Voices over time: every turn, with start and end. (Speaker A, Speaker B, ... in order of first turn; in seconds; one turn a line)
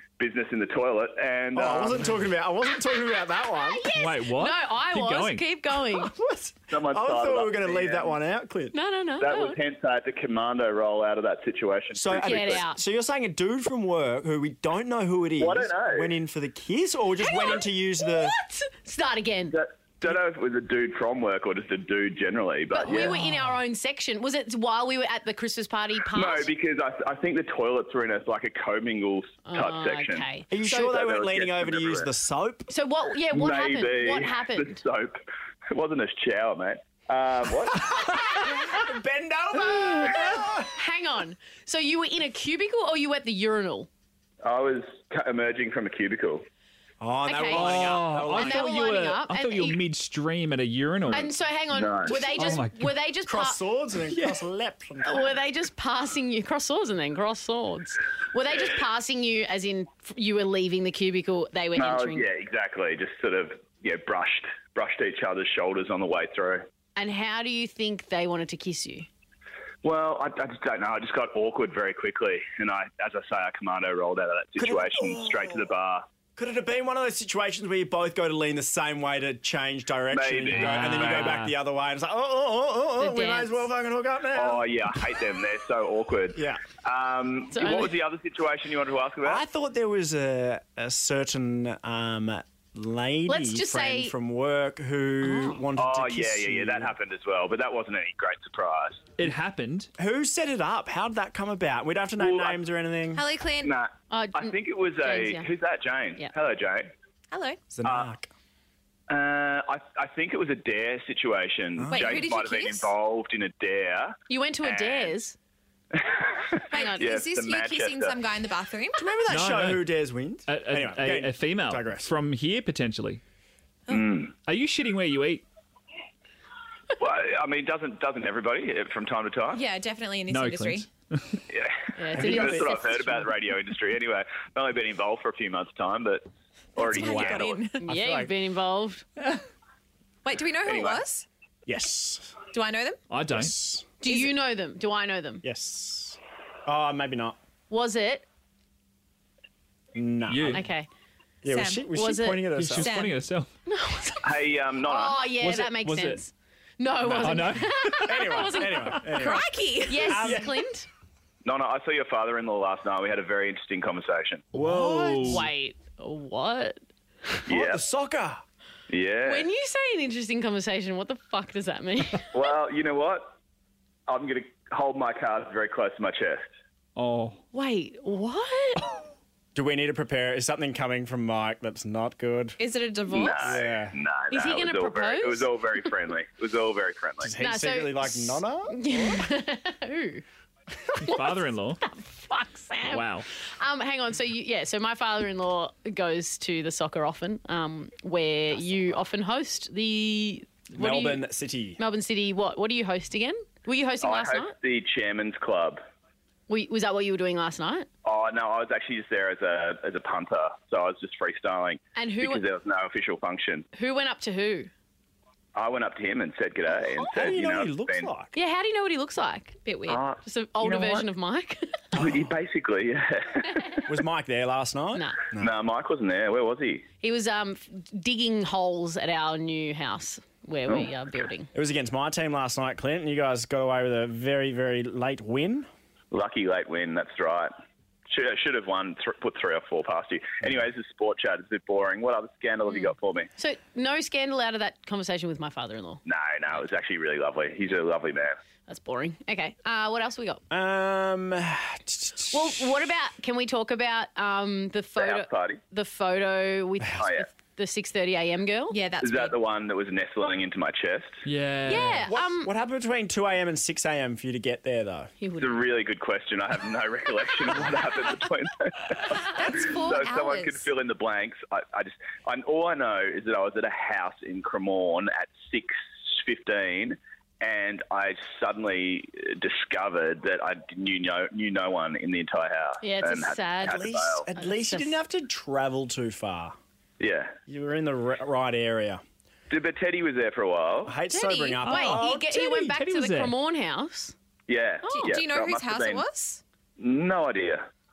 Speaker A: 0.2-2.1
Speaker B: 1.6-3.9
Speaker C: 3.6-6.1
Speaker D: 4.0-5.4
Speaker B: 5.9-8.8
Speaker A: 6.7-8.2
Speaker C: 8.7-9.6
Speaker A: 9.2-12.7
Speaker B: 11.9-18.4
Speaker C: 12.2-12.8
Speaker A: 15.4-16.1
Speaker C: 17.2-19.6
Speaker A: 19.5-23.2
Speaker C: 22.7-26.5
Speaker A: 26.1-32.1
Speaker C: 29.5-30.9
Speaker B: 30.5-32.7
Speaker C: 32.7-34.8
Speaker A: 33.3-35.2
Speaker A: 35.7-38.0
Speaker B: 37.8-40.7
Speaker C: 39.6-43.9
Speaker A: 44.4-46.5
Speaker B: 47.0-48.8
Speaker C: 47.3-49.8
Speaker D: 47.5-51.3
Speaker C: 51.1-53.6
Speaker A: 51.7-52.2
Speaker D: 52.4-52.9
Speaker B: 53.3-55.4
Speaker C: 55.0-62.3
Speaker A: 61.8-66.7
Speaker C: 67.0-69.1
Speaker A: 69.8-76.0
Speaker B: 74.6-75.7
Speaker B: 76.4-84.7
Speaker A: 80.1-81.4
Speaker D: 80.5-81.5
Speaker C: 83.0-83.7
Speaker A: 84.3-89.4
Speaker B: 86.3-86.6
Speaker C: 87.5-88.0
Speaker B: 89.2-96.9
Speaker C: 93.3-94.1
Speaker C: 95.2-95.6
Speaker A: 95.8-99.1
Speaker D: 99.2-99.9
Speaker B: 100.0-103.2
Speaker A: 102.2-102.6
Speaker E: 103.1-103.7
Speaker A: 103.6-106.9
Speaker C: 104.1-105.5
Speaker E: 107.3-107.6
Speaker B: 107.7-108.3
Speaker A: 107.8-108.1
Speaker A: 109.1-115.1
Speaker B: 111.8-112.3
Speaker E: 111.9-112.9
Speaker C: 114.3-115.4
Speaker A: 115.9-118.2
Speaker E: 116.7-119.1
Speaker C: 116.7-117.0
Speaker B: 119.0-122.1
Speaker D: 119.3-119.9
Speaker D: 120.5-123.2
Speaker A: 123.9-124.3
Speaker D: 124.5-125.5
Speaker A: 127.0-129.6
Speaker E: 129.5-130.9
Speaker D: 130.3-131.4
Speaker A: 131.5-137.6
Speaker C: 132.0-133.1
Speaker B: 132.2-132.8
Speaker E: 136.8-137.8
Speaker B: 137.0-138.3
Speaker C: 137.8-139.1
Speaker E: 140.2-141.3
Speaker A: 140.6-141.0
Speaker B: 141.7-142.4
Speaker E: 142.5-143.0
Speaker D: 143.1-143.6
Speaker B: 143.3-143.9
Speaker C: 144.0-145.4
Speaker B: 145.4-147.4
Speaker C: 147.7-148.3
Speaker B: 149.9-150.7
Speaker D: 150.3-150.6
Speaker C: 150.5-150.9
Speaker B: 151.4-153.0
Speaker E: 151.5-151.8
Speaker C: 151.9-152.5
Speaker D: 152.6-153.5
Speaker E: 152.8-153.2
Speaker C: 153.7-154.3
Speaker A: 154.2-155.2
Speaker C: 154.8-159.1
Speaker D: 155.4-156.2
Speaker D: 157.0-158.3
Speaker B: 157.8-159.5
Speaker E: 159.1-160.4
Speaker C: 159.9-160.9
Speaker B: 160.1-160.5
Speaker A: 161.4-164.4
Speaker B: 164.5-165.5
Speaker D: 164.5-165.5
Speaker C: 165.2-166.8
Speaker A: 167.5-167.8
Speaker B: 167.5-168.4
Speaker A: 168.9-169.5
Speaker C: 169.2-172.3
Speaker A: 172.3-173.4
Speaker A: 174.1-176.5
Speaker D: 177.0-177.4
Speaker C: 177.5-178.9
Speaker B: 179.6-182.6
Speaker E: 182.6-183.6
Speaker A: 183.1-187.3
Speaker B: 183.4-184.0
Speaker C: 184.3-185.5
Speaker B: 187.2-189.1
Speaker C: 187.4-190.2
Speaker C: 190.9-201.2
Speaker D: 191.0-191.8
Speaker D: 192.8-193.3
Speaker B: 200.7-201.8
Speaker C: 201.8-204.5
Speaker A: 204.0-205.8
Speaker C: 206.5-207.9
Speaker A: 208.0-213.7
Speaker C: 211.9-212.4
Speaker C: 213.7-214.7
Speaker A: 215.6-218.1
Speaker B: 216.8-218.3
Speaker C: 218.3-219.6
Speaker E: 219.7-220.0
Speaker A: 219.9-221.1
Speaker C: 220.2-221.8
Speaker A: 221.9-223.8
Speaker B: 223.9-225.5
Speaker A: 225.4-226.8
Speaker C: 227.0-231.5
Speaker B: 231.5-235.7
Speaker A: 236.1-237.5
Speaker A: 238.1-243.3
Speaker C: 243.4-246.0
Speaker A: 246.1-248.4
Speaker C: 248.7-250.4
Speaker B: 250.5-252.7
Speaker C: 252.3-258.8
Speaker A: 255.0-255.6
Speaker A: 257.0-257.3
Speaker E: 258.7-259.4
Speaker A: 259.0-261.2
Speaker D: 261.2-262.1
Speaker C: 261.7-262.5
Speaker B: 262.1-265.1
Speaker C: 265.2-265.6
Speaker A: 265.4-284.2
Speaker E: 269.2-270.7
Speaker C: 282.8-285.0
Speaker B: 283.6-286.6
Speaker A: 287.0-287.4
Speaker B: 287.5-289.0
Speaker A: 289.5-291.0
Speaker B: 290.9-292.8
Speaker C: 291.1-294.1
Speaker D: 291.7-292.1
Speaker D: 292.7-293.3
Speaker A: 294.5-296.1
Speaker C: 294.8-295.2
Speaker E: 294.9-296.4
Speaker A: 296.8-297.7